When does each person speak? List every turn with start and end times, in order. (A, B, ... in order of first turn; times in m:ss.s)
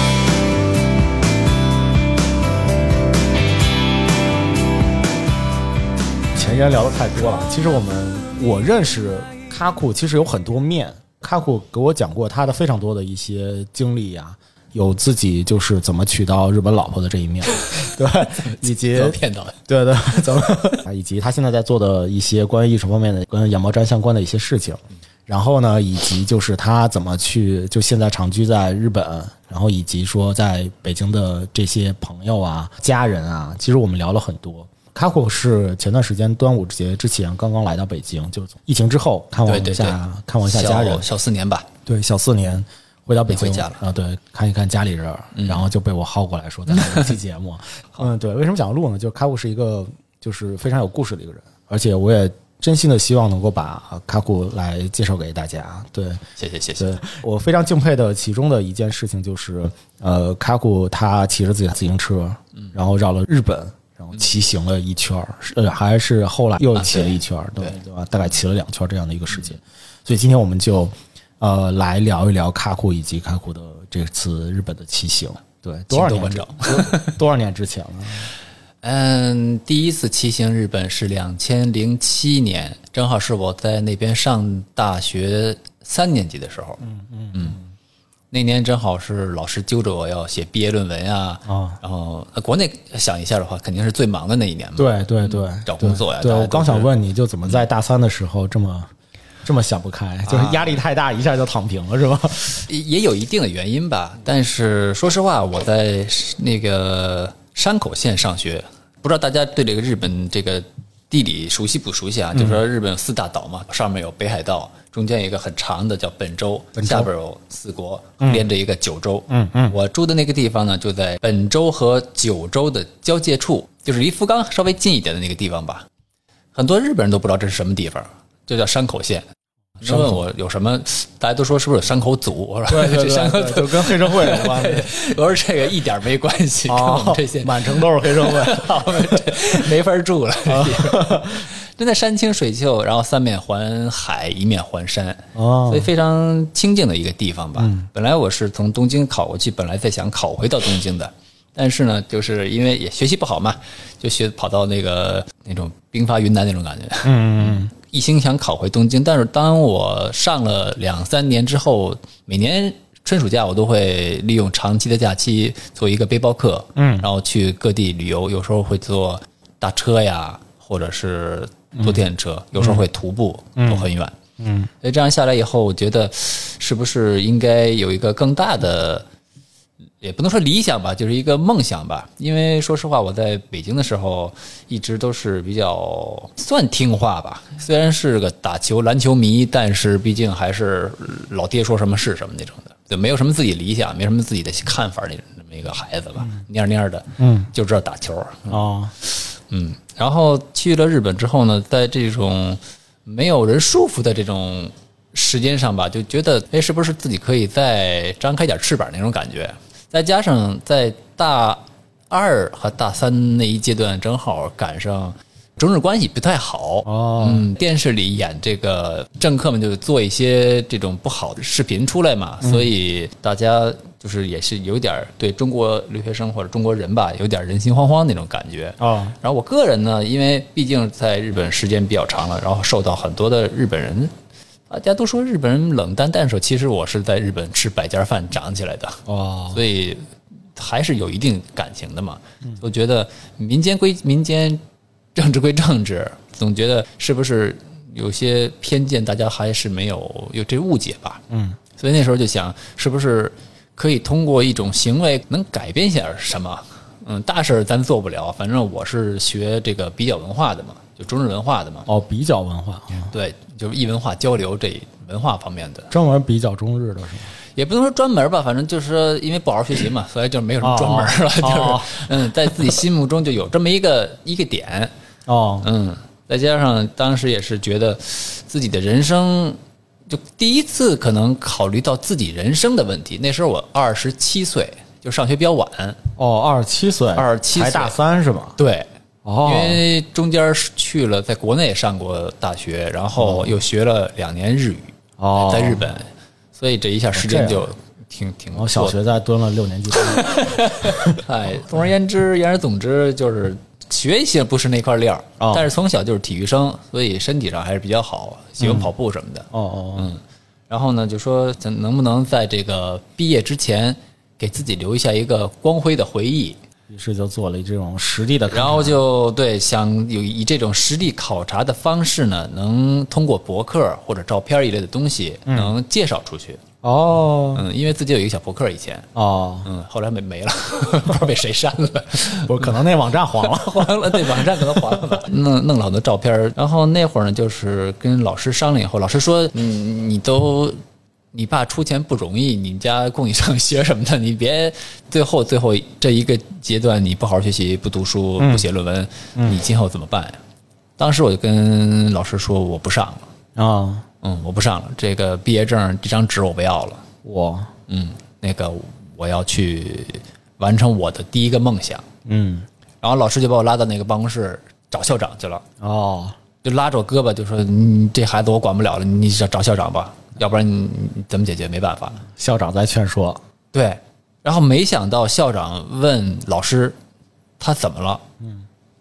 0:06.3-0:41.1 A
0:18.4-0:19.6 B
0:39.4-0:41.7 B
0:41.9-0:56.2 A
0:43.3-0:43.8 B
0:45.4-0:45.6 B
0:56.4-0:57.2 B
0:56.8-1:18.3 A
1:15.9-1:17.2 B
1:18.8-1:26.8 B
1:26.8-1:27.6 A
1:27.3-1:27.6 B
1:28.3-1:36.9 B
1:31.5-1:31.8 A
1:34.8-1:38.9 A
1:39.4-1:42.6 A
1:40.3-1:40.8 B
1:42.6-2:05.9 B
1:52.4-1:52.6 A
1:56.8-1:57.1 A
1:58.2-1:58.5 A
1:59.3-1:59.8 A
2:06.5-2:09.3 B
2:09.8-2:54.2 B
2:09.8-2:10.2 A
2:12.7-2:14.9 A
2:16.7-2:19.3 A
2:20.5-2:21.5 A
2:25.4-2:25.9 A
2:27.6-2:27.9 A
2:37.0-2:37.7 A
2:46.8-2:47.1 A
2:52.6-2:52.8 A
2:53.6-2:54.7 A
2:54.8-2:59.1 B
3:00.0-3:54.1 B
3:17.2-3:17.5 A
3:18.5-3:18.9 A
3:36.8-3:37.5 A
3:42.4-3:42.7 A
3:48.8-3:49.2 A
3:54.7-4:04.6 B
3:59.1-3:59.6 A
4:05.2-4:11.2 B
4:11.3-4:11.6 A
4:11.8-4:21.9 B
4:21.9-4:23.1 A
4:23.1-4:25.9 B
4:25.9-4:27.3 A
4:27.6-4:34.9 B
4:30.6-4:32.1 A
4:35.3-4:35.7 A
4:35.6-4:46.0 B
4:46.2-4:48.6 A
4:47.2-4:48.0 B
4:48.6-4:48.9 B
4:49.2-4:49.8 A
4:49.4-4:59.0 B
4:53.2-4:53.6 A
4:55.2-4:55.9 A
4:57.1-4:57.6 A
4:58.5-5:01.2 A
5:00.0-5:16.6 B
5:05.4-5:05.7 A
5:08.6-5:08.9 A
5:09.5-5:10.2 A
5:16.9-5:19.0 A
5:18.5-5:26.6 B
5:25.5-5:25.7 A
5:26.8-5:27.6 A
5:27.5-5:29.1 B
5:29.2-5:29.7 A
5:29.6-5:32.7 B
5:32.4-5:35.2 A
5:33.5-5:40.8 B
5:41.3-5:50.4 B
5:48.4-5:48.7 A
5:51.0-5:53.3 B
5:53.6-5:54.1 A
5:54.2-5:57.0 B
5:57.2-5:57.7 A
5:57.9-6:02.0 B
6:02.3-6:02.7 A
6:03.0-6:05.6 B
6:05.8-6:06.4 A
6:06.6-6:12.2 B
6:12.2-6:13.4 A
6:13.7-6:17.0 B
6:17.6-6:18.2 B